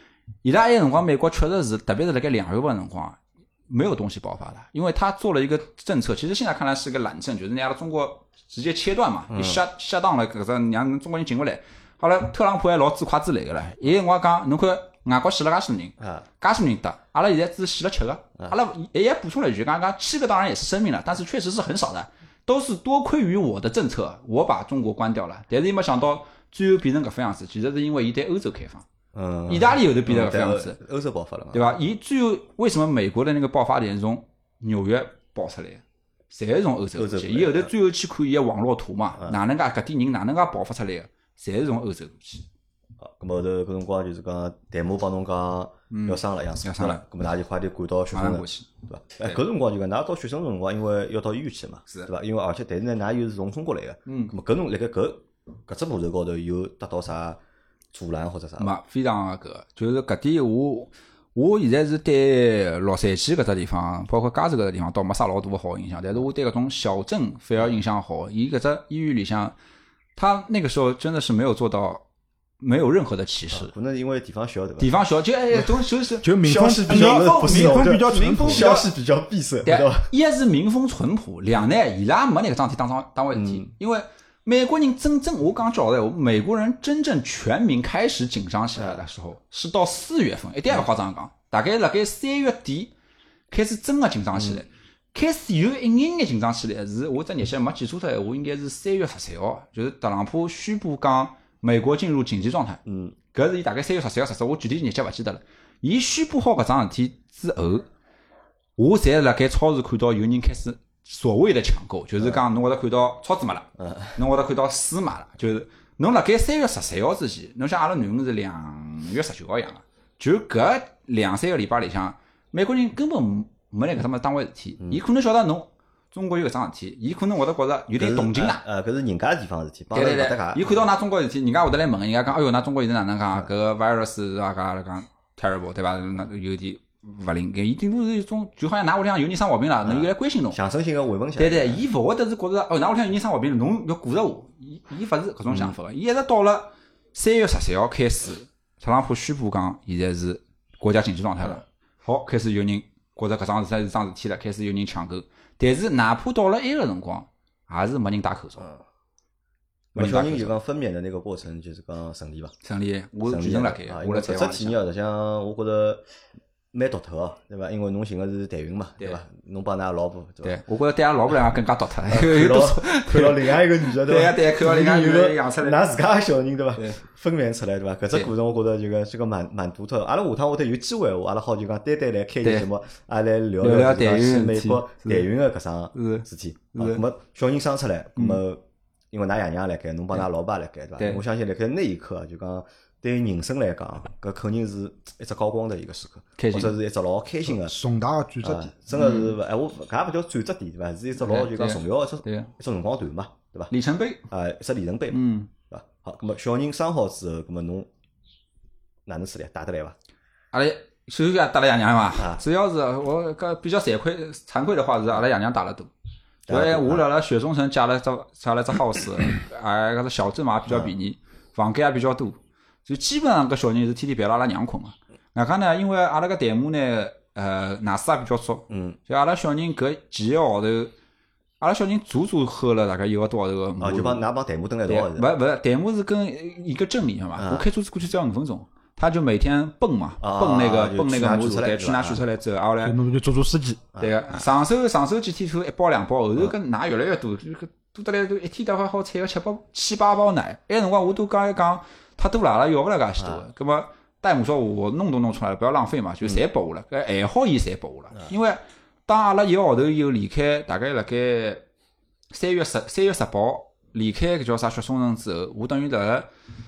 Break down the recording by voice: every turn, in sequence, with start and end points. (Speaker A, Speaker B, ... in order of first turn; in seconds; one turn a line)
Speaker A: 0.4-28.9
Speaker B: 9.3-9.6
Speaker B: 16.0-16.2
Speaker B: 29.1-31.8
Speaker A: 29.5-30.8
Speaker A: 31.5-42.5
Speaker B: 37.0-37.7
Speaker B: 43.0-57.4
Speaker A: 45.9-47.0
Speaker A: 48.1-48.7
Speaker A: 54.1-54.3
Speaker B: 57.9-58.7
Speaker A: 58.6-69.5
Speaker A: 70.2-72.0
Speaker A: 72.6-73.7
Speaker B: 73.5-74.9
Speaker A: 74.8-78.9
Speaker C: 76.2-78.7
Speaker B: 76.4-80.1
Speaker A: 79.7-92.9
Speaker B: 83.3-83.7
Speaker B: 88.8-89.0
Speaker A: 93.5-102.8
Speaker B: 94.4-94.6
Speaker B: 102.9-103.2
Speaker A: 103.3-107.9
Speaker A: 108.8-128.6
Speaker B: 113.8-114.2
Speaker B: 128.0-130.8
Speaker A: 129.9-140.6
Speaker B: 139.8-141.8
Speaker A: 141.4-158.7
Speaker B: 145.5-145.8
Speaker A: 159.9-160.5
Speaker B: 159.9-162.5
Speaker A: 162.6-164.8
Speaker B: 163.3-166.0
Speaker B: 166.7-170.6
Speaker A: 170.4-175.9
Speaker B: 172.1-197.8
Speaker A: 183.6-185.3
Speaker A: 185.9-187.0
Speaker A: 196.4-196.7
Speaker C: 197.5-198.7
Speaker B: 198.4-203.7
Speaker A: 198.9-199.3
Speaker A: 201.2-202.5
Speaker A: 203.7-204.2
Speaker B: 204.3-207.9
Speaker A: 205.1-205.5
Speaker B: 209.1-210.0
Speaker A: 210.5-215.9
Speaker B: 212.2-212.4
Speaker B: 216.5-217.0
Speaker A: 216.5-230.9
Speaker B: 220.7-220.9
Speaker B: 228.7-229.0
Speaker A: 231.6-234.2
Speaker B: 233.8-235.3
Speaker A: 234.9-243.0
Speaker B: 237.4-237.7
Speaker B: 240.2-242.2
Speaker C: 242.8-243.8
Speaker A: 244.0-261.6
Speaker B: 253.2-253.4
Speaker A: 262.3-266.3